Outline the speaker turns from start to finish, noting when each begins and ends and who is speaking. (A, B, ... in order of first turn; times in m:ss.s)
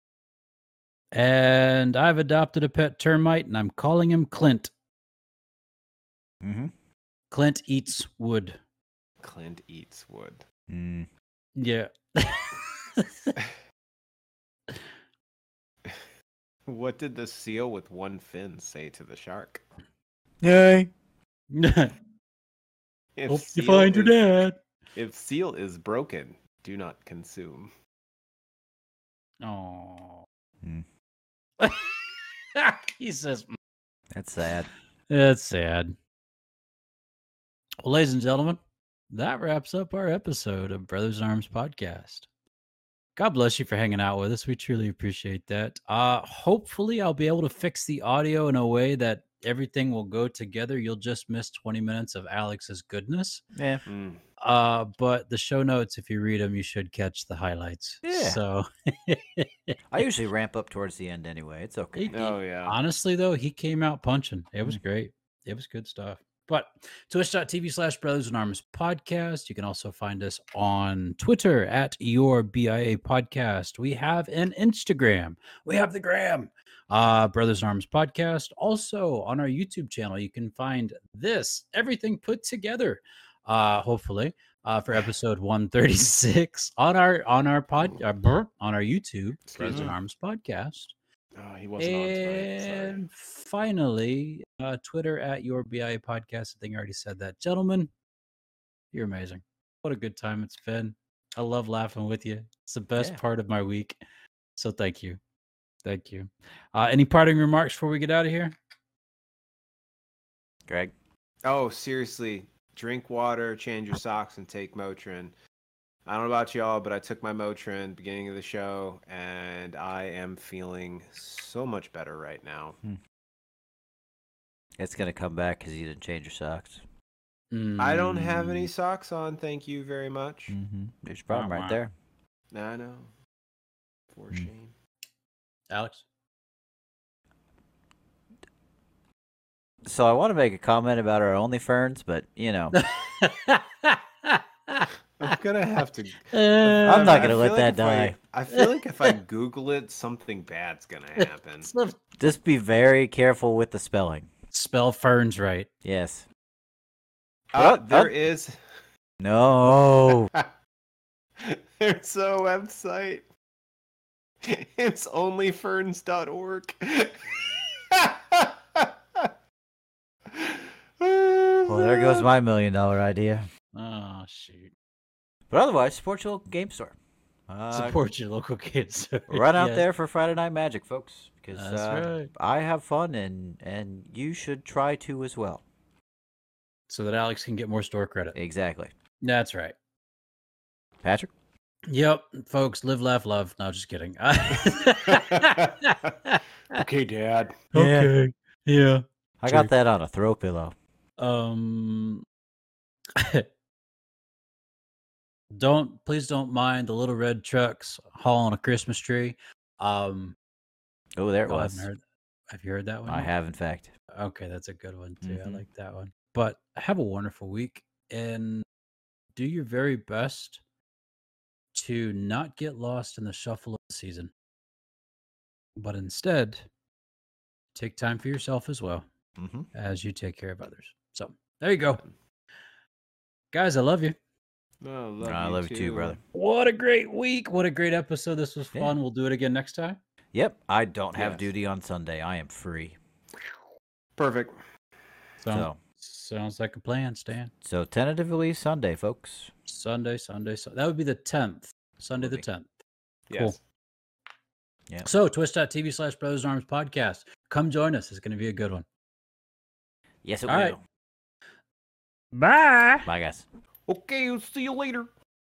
0:01.1-0:04.7 A
0:06.4-0:06.7 B
0:07.3-0:08.6 A
0:09.2-0:10.4 C
0:10.7-0:11.1 B
0:11.6-0:13.3 A
0:16.7-0:19.6 C
0:20.4-0:20.9 B
0:21.5-0:21.9 A
0:23.2-0:24.2 C
0:23.3-0:24.6 A
0:24.9-0:27.7 C
0:29.4-0:30.2 A
0:31.6-0:33.6 A
0:34.1-0:34.7 B
0:35.1-0:36.0 A
0:37.8-0:38.6 A
0:39.1-0:42.3 A
0:43.2-0:53.4 A
0:53.6-0:53.8 B
0:53.9-0:54.2 C
0:54.4-0:59.8 A
0:58.0-0:58.4 B
0:59.9-1:02.2 B
1:01.9-1:30.9 A
1:02.1-1:02.8 C
1:29.5-1:29.9 C
1:29.7-1:29.9 B
1:31.4-1:33.0 C
1:31.8-1:37.9 A
1:38.9-1:44.0 A
1:44.6-1:45.2 A
1:45.8-1:48.5 A
1:50.7-1:50.9 B
1:51.4-1:55.3 C
1:56.0-2:02.8 C
2:04.8-2:06.8 B
2:07.5-2:08.4 A
2:07.8-2:10.6 C
2:10.5-2:11.9 B
2:11.3-2:11.8 A
2:12.5-2:13.1 C
2:14.1-2:14.7 C
2:15.7-2:16.0 A
2:19.8-2:22.8 B
2:22.7-2:25.2 A
2:25.2-2:31.7 C
2:26.3-2:27.4 A
2:26.8-2:28.2 B
2:28.5-2:29.1 A
2:31.2-2:32.0 A
2:32.2-2:34.3 B
2:34.5-2:35.7 A
2:35.8-2:36.2 B
2:37.5-2:38.6 C
2:37.5-2:38.1 B
2:39.2-2:40.3 B
2:39.6-2:40.5 C
2:41.4-2:43.2 C
2:44.4-2:47.2 C
2:47.9-2:49.3 C
2:50.3-2:52.3 C
2:51.7-2:53.5 B
2:53.7-2:54.7 A
2:55.5-2:56.9 B
2:57.5-2:58.0 B
2:57.7-2:59.8 A
2:59.3-3:05.6 B
3:01.5-3:02.3 A
3:06.9-3:08.4 A
3:08.3-3:08.9 B
3:09.2-3:09.8 A
3:11.0-3:11.3 B
3:11.9-3:16.8 A
3:15.1-3:16.1 C
3:16.7-3:17.6 C
3:17.7-3:18.1 B
3:17.7-3:19.7 A
3:19.4-3:20.7 B
3:21.2-3:22.2 A
3:23.1-3:23.4 A
3:25.5-3:30.4 A
3:31.2-3:31.9 B
3:31.5-3:32.0 A
3:32.5-3:33.3 A
3:33.1-3:33.9 B
3:34.1-3:38.6 A
3:35.2-3:35.6 B
3:39.3-3:40.6 A
3:41.7-3:44.3 A
3:45.8-3:46.7 A
3:47.7-3:49.1 A
3:49.4-3:49.7 B
3:49.7-3:52.0 A
3:53.5-3:54.2 A
3:54.8-3:56.2 C
3:55.2-3:56.2 B
3:56.3-4:00.0 A
4:00.3-4:03.0 B
4:01.1-4:01.5 C
4:04.2-4:04.6 C
4:05.4-4:07.5 A
4:05.5-4:05.8 B
4:07.6-4:09.5 B
4:09.7-4:12.7 A
4:12.2-4:12.4 B
4:13.3-4:13.6 C
4:13.3-4:13.6 A
4:15.0-4:18.8 A
4:20.2-4:20.8 B
4:20.5-4:20.8 A
4:22.3-4:23.1 A
4:23.0-4:23.4 B
4:23.9-4:25.1 C